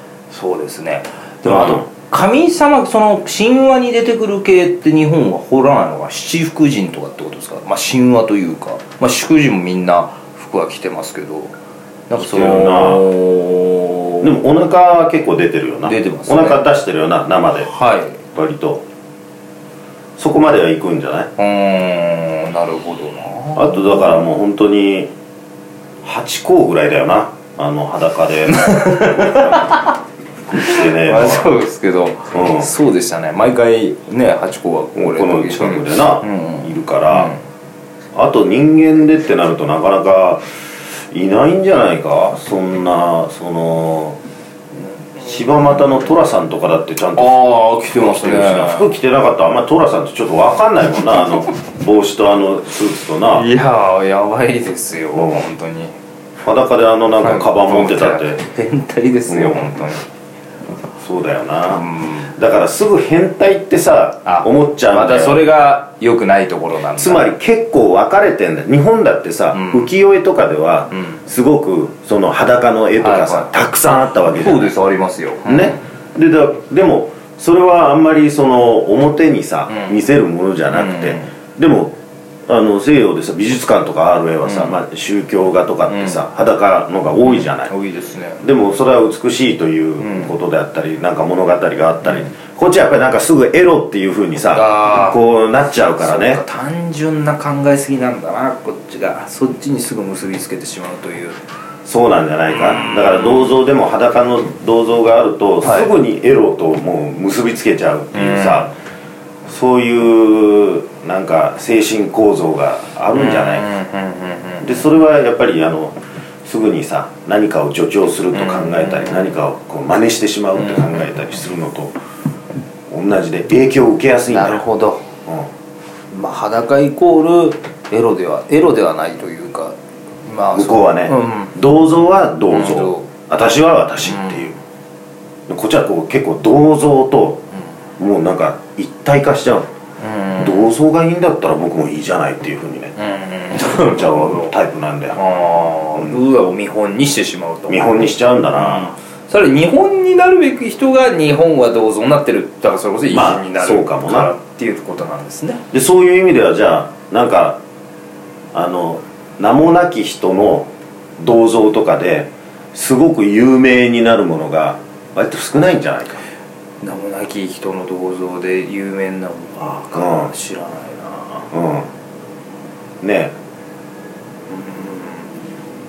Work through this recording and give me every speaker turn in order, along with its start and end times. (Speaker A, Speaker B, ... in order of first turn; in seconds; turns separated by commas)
Speaker A: 0.3-11.5, Speaker B: 1.5-1.8, Speaker A: 12.1-14.3, Speaker B: 12.2-13.1, Speaker B: 14.2-17.7, Speaker A: 15.8-16.6, Speaker A: 17.7-18.2, Speaker B: 18.3-18.8, Speaker B: 20.2-21.3, Speaker A: 21.4-24.2, Speaker B: 23.6-25.1, Speaker B: 26.0-29.8, Speaker A: 28.6-29.9, Speaker B: 30.5-31.5, Speaker A: 30.6-37.4, Speaker B: 32.3-32.7, Speaker B: 35.0-37.3, Speaker B: 38.1-40.5, Speaker B: 41.1-44.2, Speaker B: 45.2-53.5, Speaker A: 47.2-48.9, Speaker A: 53.3-56.0, Speaker B: 55.1-55.4, Speaker B: 56.4-58.4, Speaker A: 57.2-60.0, Speaker B: 59.3-59.8, Speaker B: 61.0-65.4, Speaker A: 61.7-62.3, Speaker A: 64.3-67.3, Speaker B: 67.0-74.7, Speaker A: 69.5-69.9, Speaker A: 70.9-71.2, Speaker A: 73.0-75.8, Speaker B: 75.5-87.7, Speaker A: 79.7-80.0, Speaker A: 80.7-81.3, Speaker A: 84.4-84.8, Speaker A: 85.9-86.2, Speaker A: 87.2-88.4, Speaker B: 88.4-96.4, Speaker A: 90.0-90.3, Speaker A: 94.4-101.4, Speaker B: 101.9-108.7, Speaker A: 102.5-103.6, Speaker A: 105.6-105.9, Speaker A: 108.1-108.7, Speaker B: 109.5-113.7, Speaker A: 113.1-114.8, Speaker B: 114.6-121.9, Speaker A: 118.3-119.3, Speaker A: 120.6-121.0, Speaker B: 122.9-124.6, Speaker A: 124.3-125.0, Speaker A: 126.1-129.8, Speaker A: 130.3-131.6, Speaker B: 130.6-134.6, Speaker A: 132.5-133.1, Speaker A: 134.1-134.4, Speaker B: 135.5-137.4, Speaker B: 138.0-139.7, Speaker A: 140.0-140.7, Speaker B: 140.4-142.9, Speaker A: 143.0-144.5, Speaker B: 143.6-145.2, Speaker A: 145.2-155.6, Speaker B: 147.7-148.9, Speaker B: 153.1-154.3, Speaker B: 155.7-157.6, Speaker B: 158.5-166.2, Speaker A: 166.8-171.5, Speaker B: 169.9-170.3, Speaker B: 171.5-171.9, Speaker B: 173.0-173.3, Speaker A: 174.5-175.3